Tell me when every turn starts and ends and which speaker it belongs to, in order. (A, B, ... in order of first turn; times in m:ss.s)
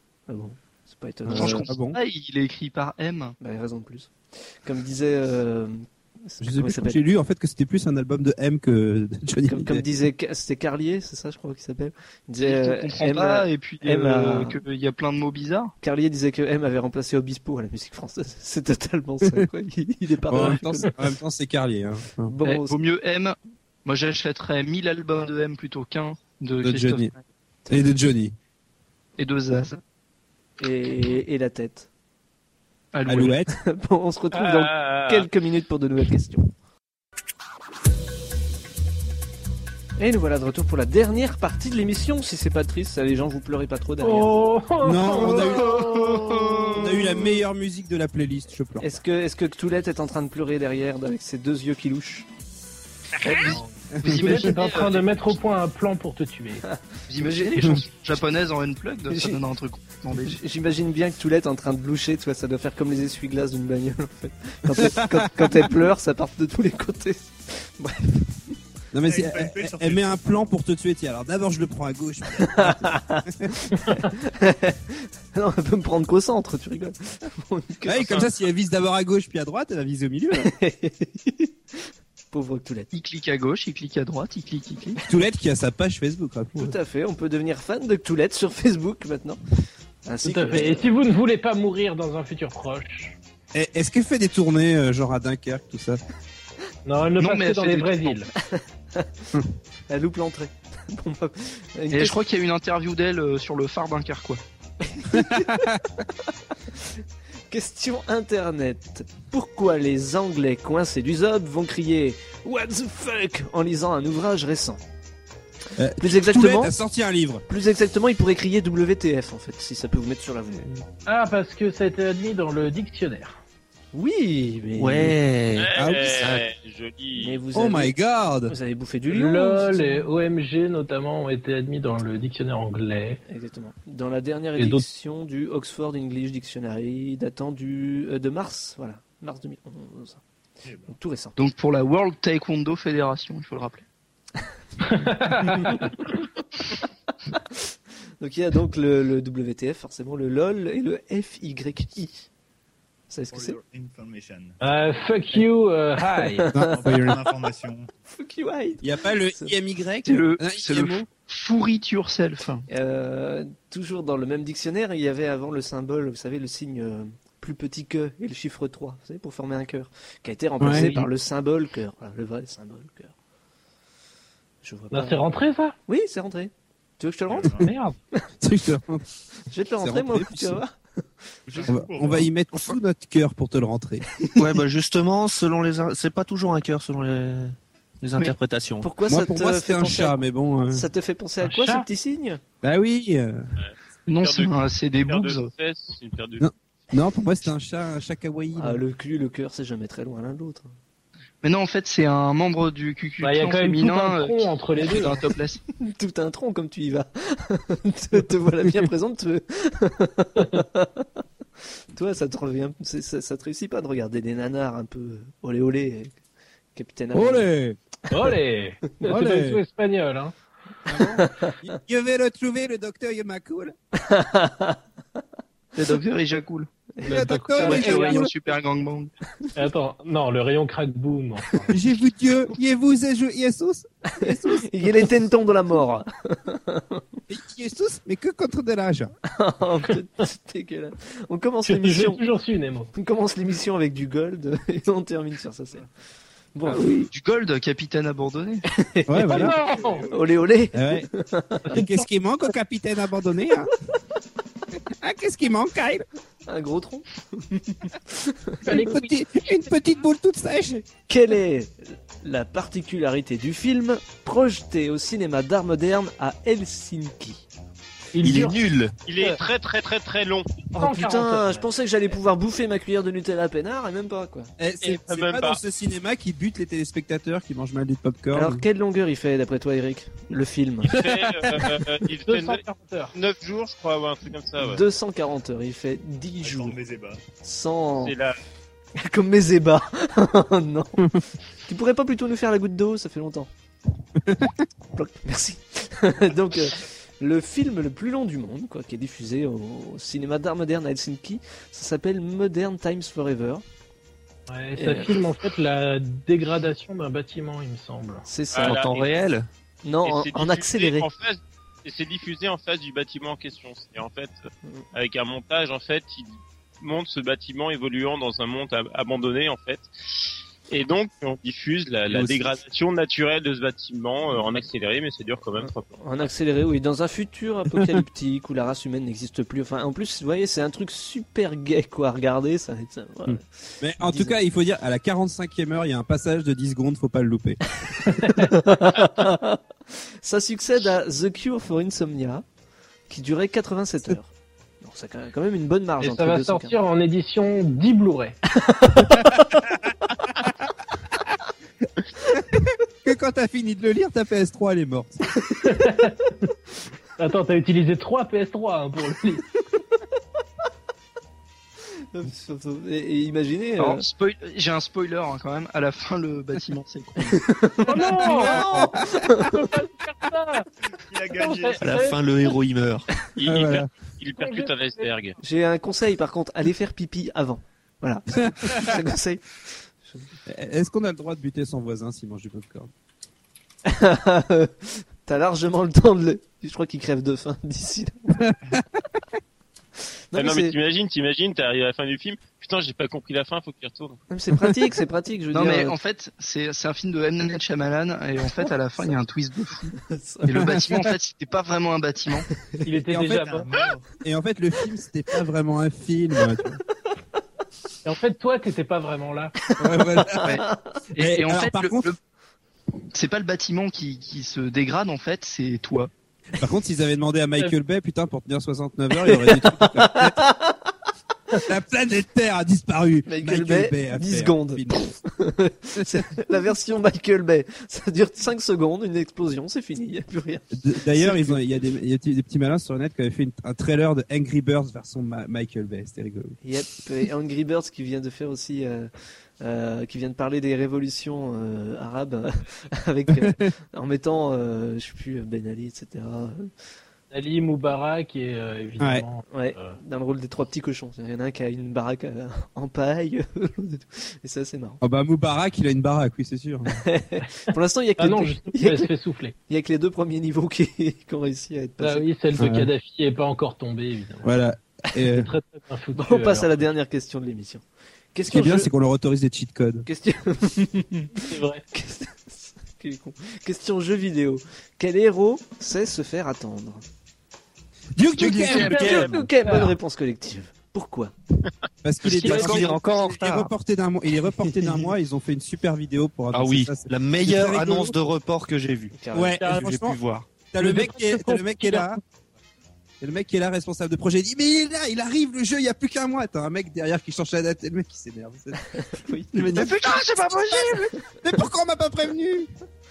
0:00.3-0:01.7 A
0:01.2-0:02.0 B
0:01.3-0:03.3 C
0:03.4-0:07.0 A
0:06.4-0:09.8 B
0:09.5-0:14.6 A
0:12.4-0:15.7 C
0:15.8-0:20.9 A
0:20.3-0:22.3 B
0:22.3-0:22.8 A
0:22.4-0:27.1 C
0:26.6-0:27.1 B
0:27.7-0:28.3 B
0:29.2-0:29.8 C
0:30.6-0:31.9 A
0:32.9-0:33.4 C
0:33.0-0:33.5 B
0:33.5-0:36.5 A
0:34.3-0:35.3 D
0:40.0-0:44.5 A
0:44.0-0:46.9 E
0:44.8-0:45.9 B
0:45.9-0:46.8 C
0:46.7-0:48.9 B
0:48.8-0:52.3 A
0:53.2-0:55.2 C
0:53.2-0:56.6 E
0:54.0-0:54.5 B
0:56.6-0:57.5 A
0:57.1-1:00.4 C
0:59.1-0:59.4 A
1:00.2-1:08.4 A
1:04.7-1:05.7 B
1:08.9-1:13.5 B
1:09.0-1:10.2 F
1:12.4-1:18.3 A
1:17.8-1:20.5 B
1:18.0-1:18.3 D
1:20.4-1:22.9 A
1:22.9-1:25.0 C
1:25.0-1:26.8 B
1:26.6-1:29.4 A
1:30.0-1:30.9 A
1:30.2-1:33.2 E
1:33.5-1:36.0 B
1:36.8-1:38.3 E
1:37.2-1:38.2 C
1:38.4-1:39.3 A
1:39.9-1:42.2 A
1:41.9-1:44.4 C
1:44.8-1:45.6 A
1:45.1-1:45.8 B
1:46.7-1:54.8 A
1:55.8-1:57.4 B
1:56.0-1:56.8 A
1:57.5-2:00.8 A
2:01.0-2:03.4 E
2:03.9-2:05.2 A
2:04.8-2:06.4 G
2:05.6-2:07.4 D
2:05.7-2:06.3 B
2:07.2-2:07.9 A
2:07.5-2:08.5 B
2:08.5-2:10.0 A
2:09.1-2:13.2 E
2:13.3-2:20.2 A
2:14.6-2:14.8 E
2:20.6-2:21.0 F
2:20.9-2:21.4 A
2:21.4-2:23.8 C
2:24.8-2:26.1 E
2:25.4-2:25.9 A
2:27.3-2:27.6 A
2:28.2-2:32.3 A
2:33.1-2:33.6 A
2:33.3-2:34.6 F
2:34.6-2:36.5 E
2:36.4-2:36.7 A
2:36.5-2:37.2 B
2:36.6-2:37.9 F
2:38.1-2:39.6 A
2:38.8-2:41.0 B
2:40.0-2:42.6 C
2:42.7-2:53.1 A
2:50.6-2:51.0 B
2:54.6-2:55.2 A
2:54.9-2:55.8 E
2:55.8-2:57.5 A
2:57.3-2:57.7 F
2:57.6-2:58.0 E
2:58.4-2:59.0 B
2:59.5-3:01.0 A
2:59.8-3:00.6 B
3:01.5-3:02.3 F
3:01.6-3:04.1 B
3:04.4-3:08.9 G
3:08.8-3:12.4 A
3:09.0-3:10.9 B
3:11.4-3:11.9 E
3:12.6-3:13.5 B
3:13.6-3:16.5 D
3:14.1-3:15.5 C
3:16.4-3:18.8 B
3:18.6-3:20.7 A
3:21.4-3:25.6 C
3:23.2-3:25.2 E
3:25.8-3:31.1 A
3:31.9-3:36.2 A
3:36.7-3:37.5 A
3:37.1-3:37.8 B
3:38.1-3:40.3 E
3:39.0-3:39.6 B
3:40.8-3:43.7 B
3:41.2-3:41.5 A
3:44.0-3:44.8 A
3:45.7-3:46.7 C
3:47.0-3:47.8 A
3:47.0-3:48.2 E
3:47.1-3:48.3 B
3:47.6-3:49.1 C
3:49.6-3:51.8 E
3:51.7-3:55.1 B
3:54.1-3:57.0 A
3:57.3-3:59.1 B
3:59.2-4:02.2 A
4:01.6-4:02.9 E
4:02.9-4:05.8 A
4:06.5-4:06.9 A
4:06.7-4:08.6 C
4:06.8-4:07.1 B
4:08.7-4:11.8 A
4:09.1-4:09.6 B
4:09.2-4:10.1 E
4:09.4-4:10.4 F
4:10.7-4:11.1 B
4:11.7-4:12.0 E
4:11.7-4:13.7 B
4:14.9-4:16.0 B
4:16.5-4:18.9 A
4:18.6-4:20.8 B
4:18.6-4:19.3 E
4:21.1-4:27.4 A
4:28.1-4:29.4 E
4:28.2-4:29.0 G
4:29.0-4:30.6 D
4:30.7-4:31.6 E
4:30.7-4:34.5 A
4:34.6-4:38.6 B
4:34.8-4:35.6 D
4:38.3-4:40.9 A
4:40.8-4:42.6 D
4:42.2-4:43.1 E
4:43.1-4:44.8 D
4:44.6-4:46.8 A
4:46.4-4:47.2 F
4:47.4-4:48.1 A
4:48.0-4:48.3 D
4:49.0-4:51.1 A
4:51.6-4:53.5 A
4:54.2-4:54.5 B
4:54.9-5:03.6 A
5:04.5-5:08.2 E
5:04.7-5:05.2 A
5:08.2-5:08.8 A
5:08.5-5:09.1 D
5:08.5-5:09.5 G
5:09.8-5:11.1 A
5:10.0-5:19.9 D
5:20.7-5:26.3 D
5:25.6-5:33.4 A
5:33.3-5:37.6 B
5:34.0-5:34.4 A
5:37.9-5:42.4 A
5:38.1-5:38.5 E
5:43.1-5:44.3 A
5:44.8-5:46.8 A
5:46.0-5:48.4 E
5:48.5-5:49.6 A
5:52.3-5:55.2 B
5:55.6-5:56.5 E
5:57.2-5:59.4 E
6:02.1-6:04.0 A
6:03.8-6:07.5 C
6:07.4-6:09.7 A
6:07.8-6:10.7 E
6:08.2-6:09.2 B
6:10.8-6:12.0 F
6:11.3-6:12.5 E
6:11.8-6:13.0 G
6:13.3-6:15.4 D
6:13.4-6:13.9 B
6:14.4-6:15.1 E
6:15.4-6:20.3 A
6:18.3-6:19.0 B
6:20.5-6:22.9 B
6:23.8-6:28.5 A
6:28.3-6:28.8 B
6:30.3-6:30.8 A
6:30.3-6:34.2 D
6:34.3-6:36.0 A
6:35.5-6:42.5 C
6:40.0-6:40.8 A
6:40.5-6:40.9 B
6:42.8-6:43.7 E
6:43.1-6:43.4 B
6:43.2-6:44.0 F
6:44.2-6:46.8 B
6:48.0-6:49.5 E
6:49.8-6:50.6 B
6:49.8-6:50.8 A
6:50.4-6:52.2 C
6:51.1-6:52.1 B
6:53.1-6:56.1 C
6:56.6-7:00.4 B
6:59.2-7:00.9 A
7:01.6-7:05.0 B
7:03.2-7:11.7 A
7:10.7-7:16.6 B
7:16.6-7:26.7 A
7:23.3-7:23.7 B
7:27.3-7:30.0 E
7:29.0-7:29.2 B
7:29.5-7:35.0 A
7:35.0-7:37.0 B
7:37.0-7:39.1 A
7:38.2-7:39.5 E
7:39.7-7:42.2 A
7:42.0-7:44.5 E
7:42.6-7:42.9 B
7:44.4-7:45.5 B
7:45.2-7:46.8 E
7:46.1-7:48.9 A
7:48.5-7:50.0 B
7:50.0-7:57.0 A
7:51.3-7:51.8 E
7:58.1-7:59.2 B
7:58.4-7:59.3 G
7:58.4-8:00.0 E
7:58.9-8:01.3 A
8:02.0-8:08.1 B
8:02.2-8:03.0 E
8:02.2-8:03.7 G
8:06.5-8:09.2 G
8:09.1-8:09.6 A
8:09.3-8:12.2 B
8:09.7-8:10.5 G
8:10.8-8:12.2 E
8:13.2-8:18.8 B
8:19.0-8:19.8 A
8:19.5-8:22.7 B
8:19.7-8:21.1 C